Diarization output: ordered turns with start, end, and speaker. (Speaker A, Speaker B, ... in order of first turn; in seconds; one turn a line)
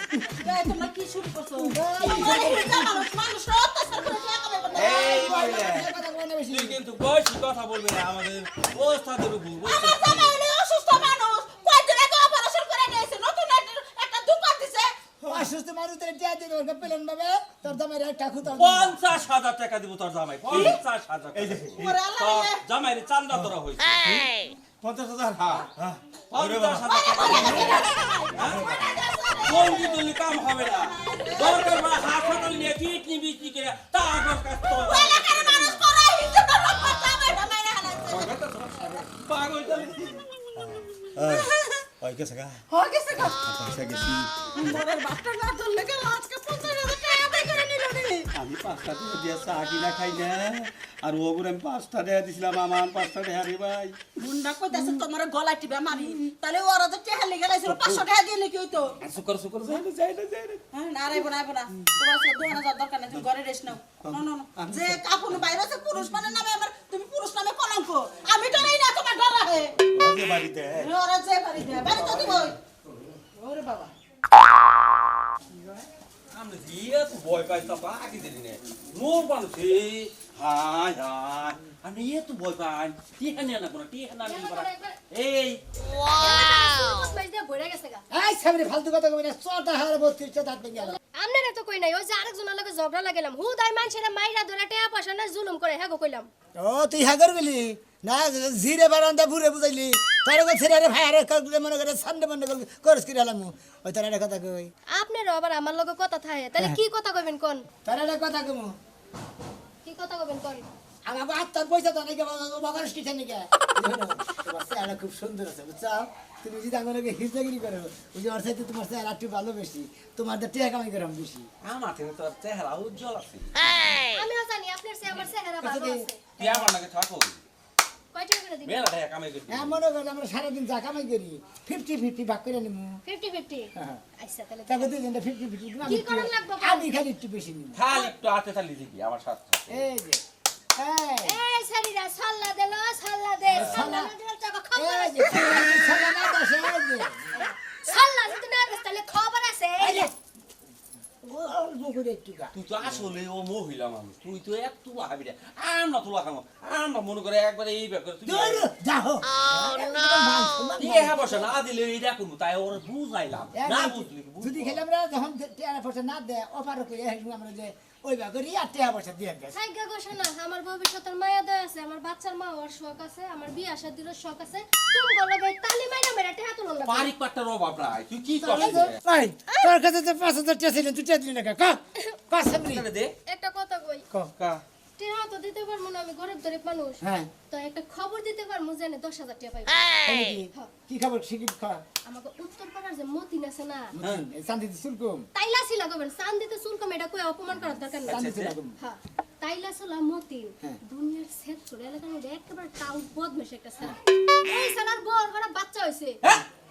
Speaker A: 0.4-5.2
Speaker B: 1.7-2.8
Speaker C: 4.7-5.9
Speaker B: 4.8-6.8
Speaker C: 6.5-10.3
Speaker A: 9.7-14.9
Speaker B: 15.3-19.0
Speaker C: 18.6-23.9
Speaker D: 20.4-20.8
Speaker D: 21.3-21.9
Speaker A: 21.9-22.6
Speaker D: 24.8-27.8
Speaker C: 25.4-25.6
Speaker C: 26.3-27.8
Speaker A: 26.9-29.8
Speaker C: 28.4-28.7
Speaker C: 29.4-35.8
Speaker A: 30.9-31.8
Speaker A: 34.8-38.3
Speaker C: 38.0-40.2
Speaker D: 40.6-42.6
Speaker A: 41.4-41.7
Speaker A: 42.7-43.4
Speaker D: 43.4-44.3
Speaker A: 44.5-48.3
Speaker D: 48.3-54.0
Speaker A: 54.2-59.0
Speaker D: 54.7-55.0
Speaker D: 57.6-58.0
Speaker D: 59.0-60.6
Speaker A: 60.7-69.8
Speaker D: 64.0-65.0
Speaker D: 69.9-70.9
Speaker A: 70.8-72.5
Speaker D: 72.1-72.5
Speaker A: 73.3-73.9
Speaker C: 76.3-85.6
Speaker E: 84.2-85.0
Speaker E: 86.1-88.0
Speaker B: 88.1-91.0
Speaker E: 90.9-96.3
Speaker B: 96.6-104.7
Speaker E: 104.9-107.7
Speaker B: 107.8-108.7
Speaker E: 109.8-110.6
Speaker B: 111.1-121.5
Speaker C: 121.6-123.9
Speaker E: 124.0-126.3
Speaker B: 125.6-126.7
Speaker C: 126.4-127.4
Speaker E: 128.1-128.9
Speaker C: 128.6-129.8
Speaker B: 129.5-133.0
Speaker E: 133.0-134.9
Speaker B: 134.7-137.8
Speaker E: 135.8-137.0
Speaker C: 137.7-139.8
Speaker B: 139.7-140.2
Speaker B: 140.8-141.4
Speaker E: 141.2-146.0
Speaker B: 143.5-144.1
Speaker C: 143.6-143.8
Speaker B: 144.8-147.3
Speaker E: 147.3-150.1
Speaker B: 149.8-150.1
Speaker B: 151.2-152.5
Speaker C: 152.5-158.6
Speaker B: 158.2-161.4
Speaker C: 160.8-164.8
Speaker B: 163.6-169.6
Speaker E: 169.5-177.1
Speaker C: 176.8-179.0
Speaker B: 178.4-182.8
Speaker C: 182.7-183.1
Speaker E: 183.3-184.0
Speaker C: 184.4-184.6
Speaker E: 185.0-189.9
Speaker B: 187.0-187.3
Speaker B: 190.0-191.8
Speaker E: 192.0-193.9
Speaker B: 193.9-195.2
Speaker E: 195.3-198.2
Speaker B: 198.1-198.7
Speaker D: 198.2-198.4
Speaker E: 198.8-206.2